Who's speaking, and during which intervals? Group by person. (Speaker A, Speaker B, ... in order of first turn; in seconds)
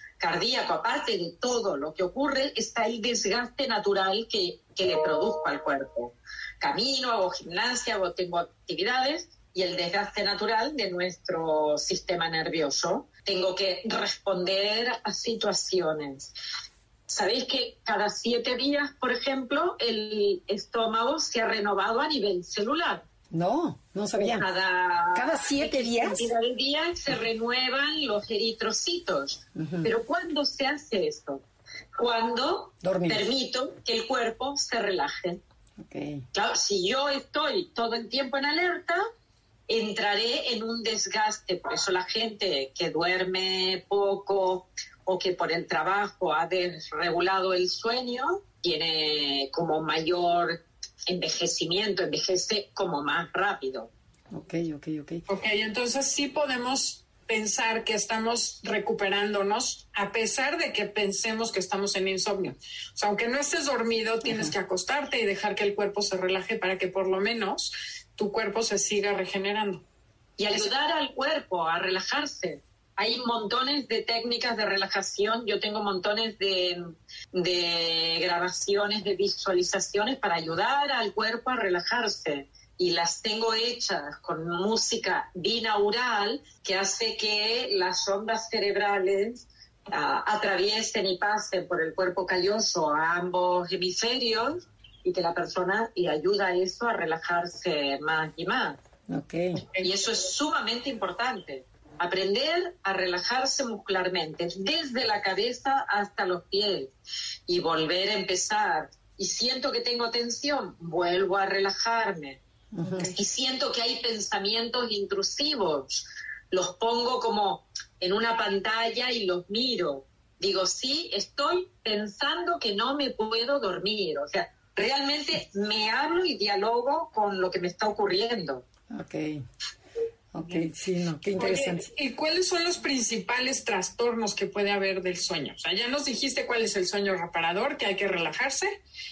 Speaker A: 0.2-16.3, 17.1-23.0, 24.2-31.4, 31.9-35.4, 36.3-39.0, 39.7-53.9, 70.4-98.8, 99.8-106.9, 107.5-112.4, 113.0-128.6
Speaker B: 23.3-24.5, 25.1-26.3, 29.6-29.9, 32.8-33.3, 35.8-36.2, 54.3-55.2, 64.2-64.5, 99.1-99.6, 112.7-113.1, 128.9-129.4, 130.3-131.9
Speaker C: 55.3-69.8, 131.4-138.8